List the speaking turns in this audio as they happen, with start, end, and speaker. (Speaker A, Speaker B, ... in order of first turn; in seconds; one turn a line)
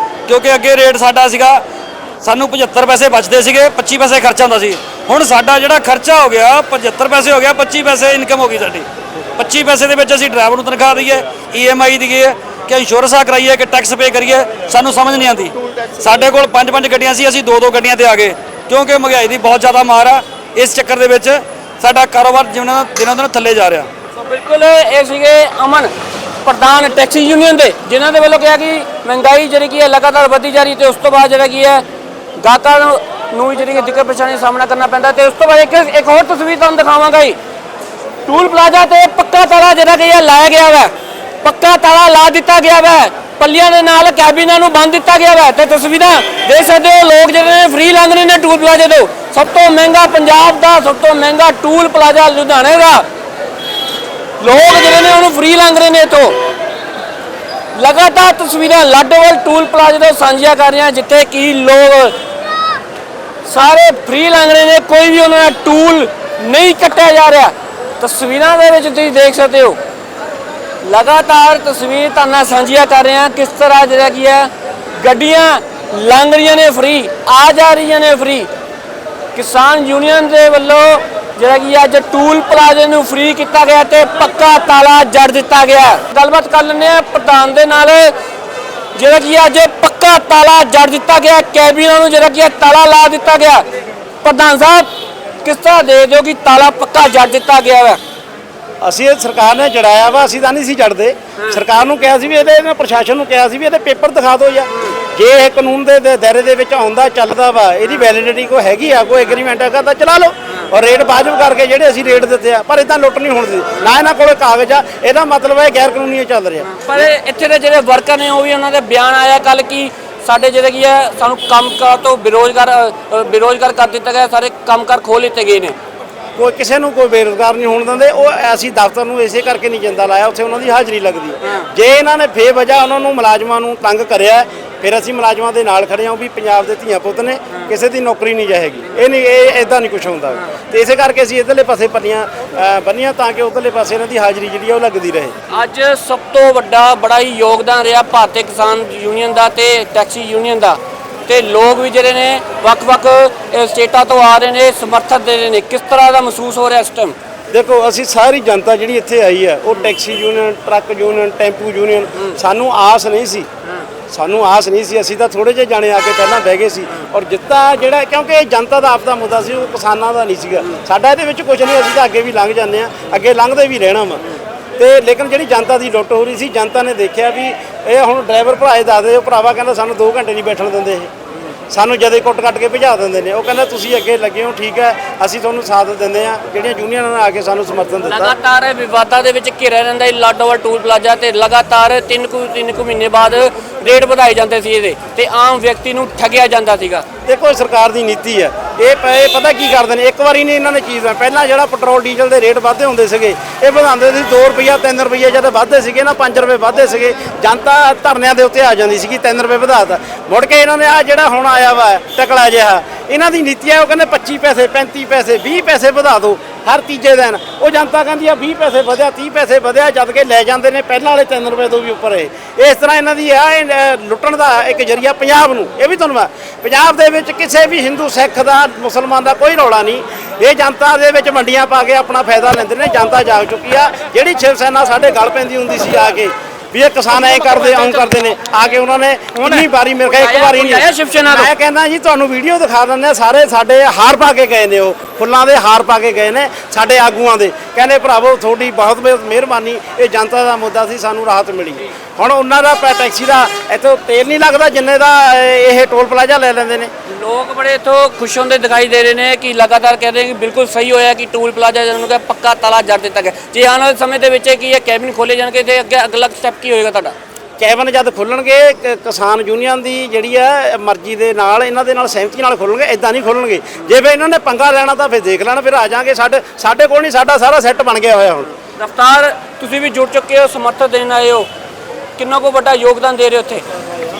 Speaker A: 0.3-1.6
Speaker A: 2.2-8.8
Speaker A: 9.4-23.9
Speaker B: 24.2-25.9
Speaker B: 26.4-31.8
Speaker B: 32.4-37.4
Speaker B: 38.2-53.0
Speaker B: 54.4-56.4
Speaker B: 57.8-62.1
Speaker B: 63.4-69.8
Speaker B: 70.8-78.5
Speaker B: 79.3-88.1
Speaker B: 88.9-93.6
Speaker B: 94.2-94.9
Speaker B: 95.4-98.0
Speaker C: 98.8-117.1
Speaker B: 116.7-125.8
Speaker C: 126.3-145.3
Speaker B: 131.4-131.7
Speaker B: 145.5-157.2
Speaker C: 157.5-163.5
Speaker C: 164.1-174.2
Speaker C: 174.8-181.1
Speaker C: 181.7-188.3
Speaker B: 188.0-197.0
Speaker C: 197.3-256.9
Speaker B: 239.4-241.5
Speaker B: 257.1-267.1
Speaker C: 267.6-278.5
Speaker B: 278.8-281.5
Speaker B: 282.2-283.6